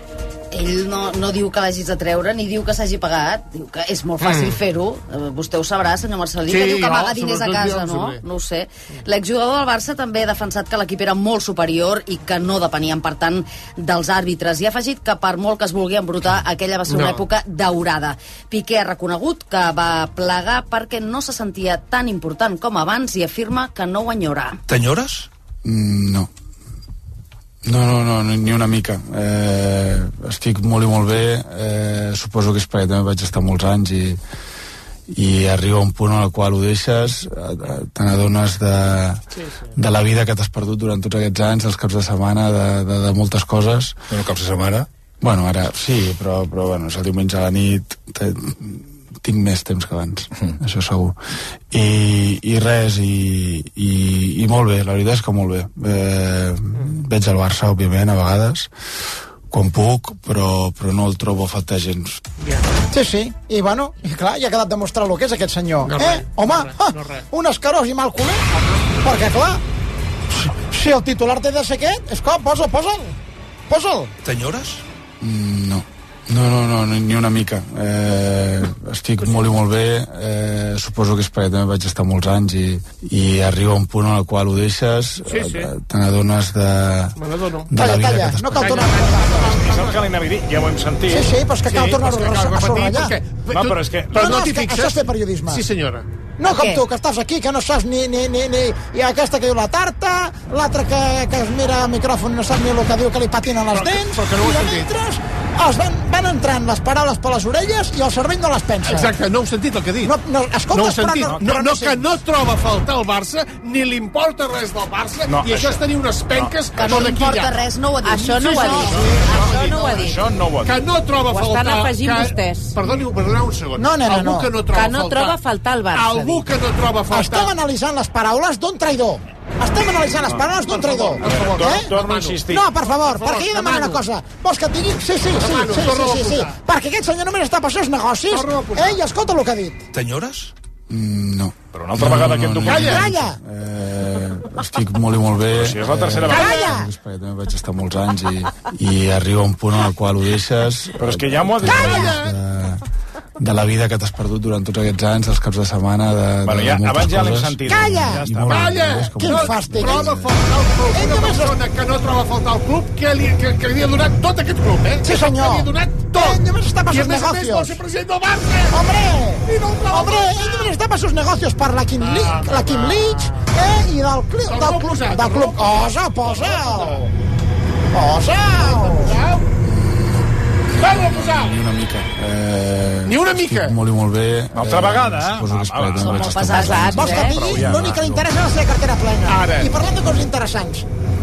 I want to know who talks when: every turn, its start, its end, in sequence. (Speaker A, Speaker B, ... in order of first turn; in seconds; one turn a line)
Speaker A: 0.5-24.6
Speaker B: 4.2-4.6
Speaker B: 6.5-8.2
Speaker B: 16.9-17.2
Speaker C: 25.6-26.3
Speaker C: 27.6-34.2
Speaker C: 35.1-39.2
Speaker B: 39.4-39.7
Speaker C: 39.8-44.0
Speaker C: 45.2-51.1
Speaker C: 51.7-58.7
Speaker C: 59.5-62.2
Speaker B: 62.4-62.6
Speaker D: 62.9-68.5
Speaker B: 65.8-67.2
Speaker B: 68.5-69.0
Speaker D: 69.0-69.6
Speaker D: 70.4-73.1
Speaker D: 73.7-74.1
Speaker C: 75.2-87.2
Speaker B: 85.2-85.7
Speaker B: 87.2-87.7
Speaker C: 87.7-88.9
Speaker D: 87.8-89.5
Speaker B: 88.5-90.1
Speaker E: 89.5-91.3
Speaker D: 91.1-93.1
Speaker B: 91.7-96.0
Speaker E: 93.5-94.4
Speaker D: 94.1-95.6
Speaker D: 96.4-109.2
Speaker B: 103.7-104.9
Speaker B: 108.8-110.1
Speaker D: 110.0-112.0
Speaker B: 110.7-117.6
Speaker E: 111.3-111.5
Speaker E: 115.3-116.5
Speaker A: 116.8-118.6
Speaker F: 118.0-120.2
Speaker D: 118.4-119.0
Speaker B: 118.5-119.9
Speaker E: 119.3-120.8
Speaker B: 120.6-125.3
Speaker F: 121.3-122.8
Speaker D: 123.8-124.6
Speaker F: 124.7-126.5
Speaker B: 125.9-127.5
Speaker D: 127.1-131.9
Speaker B: 130.6-134.0
Speaker E: 131.2-132.6
Speaker D: 132.5-139.8
Speaker B: 135.3-136.6
Speaker B: 138.3-139.0
Speaker C: 140.9-152.8
Speaker E: 141.7-143.1
Speaker B: 142.6-143.1
Speaker D: 142.7-143.4
Speaker E: 145.5-146.6
Speaker D: 146.3-146.9
Speaker E: 151.0-152.2
Speaker B: 151.7-152.3
Speaker D: 151.8-152.1
Speaker C: 153.4-160.3
Speaker E: 156.4-159.1
Speaker D: 157.7-158.3
Speaker B: 158.4-168.8
Speaker D: 159.2-160.2
Speaker D: 160.9-161.6
Speaker D: 165.0-167.8
Speaker D: 168.7-177.1
Speaker B: 169.4-170.7
Speaker B: 172.0-173.5
Speaker B: 174.4-177.1
Speaker D: 177.9-179.2
Speaker B: 178.5-179.5
Speaker C: 179.6-187.7
Speaker B: 180.8-181.6
Speaker B: 183.0-183.8
Speaker E: 184.6-188.2
Speaker A: 186.0-186.6
Speaker F: 186.4-187.4
Speaker D: 186.9-190.8
Speaker B: 189.2-189.7